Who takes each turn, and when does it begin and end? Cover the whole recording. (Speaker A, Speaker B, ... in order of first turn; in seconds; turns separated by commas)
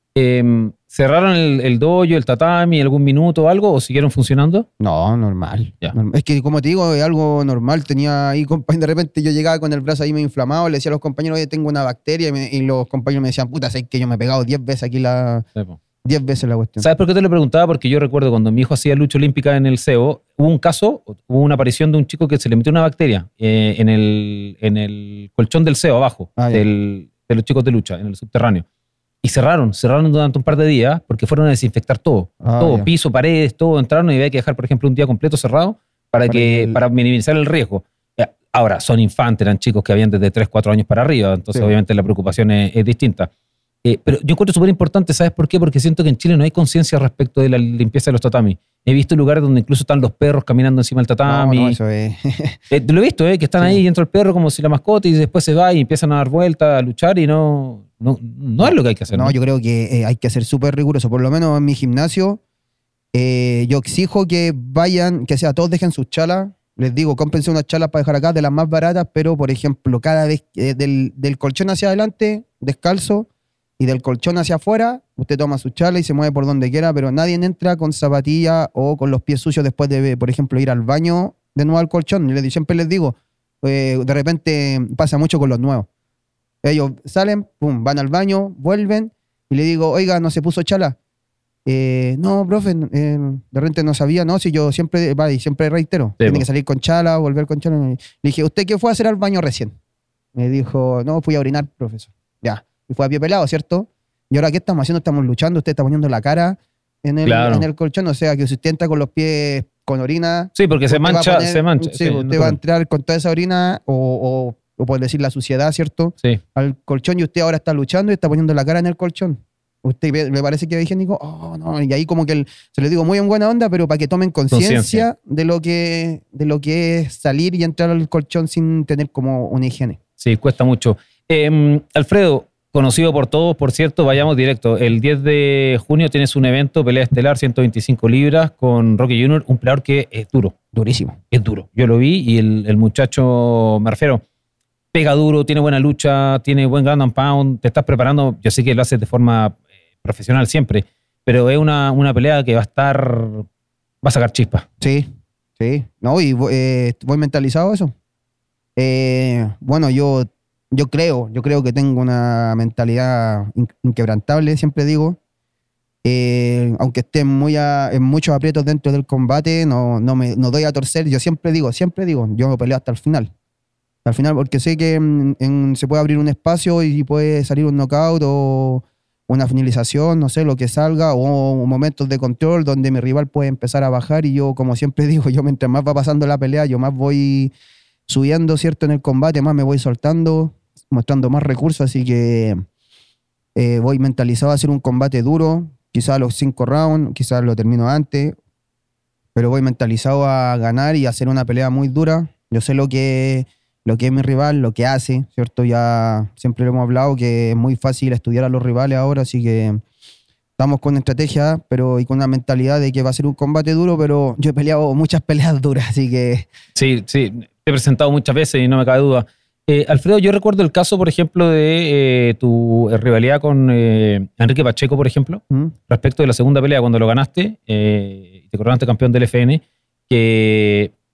Speaker A: 0.1-4.7, Speaker B: 4.8-15.4, Speaker B: 16.0-16.9, Speaker A: 16.8-28.6, Speaker B: 26.4-26.6, Speaker A: 29.2-43.3, Speaker B: 32.4-32.9, Speaker B: 36.3-36.8, Speaker A: 43.8-51.8, Speaker B: 51.2-52.6, Speaker A: 52.7-59.3, Speaker B: 58.6-62.4, Speaker B: 63.1-73.3, Speaker B: 73.8-85.9, Speaker B: 86.6-91.0, Speaker B: 91.7-99.8, Speaker B: 100.3-130.0, Speaker A: 107.2-107.7, Speaker A: 110.5-112.6, Speaker A: 124.5-125.0, Speaker A: 130.2-140.5, Speaker B: 140.7-141.2, Speaker A: 141.3-144.2, Speaker A: 144.9-153.4, Speaker A: 154.0-154.6, Speaker B: 154.8-157.9, Speaker B: 158.8-165.2, Speaker B: 166.0-173.3, Speaker B: 174.0-187.5, Speaker B: 188.1-192.6, Speaker B: 193.5-198.4, Speaker B: 199.3-209.8, Speaker B: 210.6-216.5, Speaker A: 216.7-230.9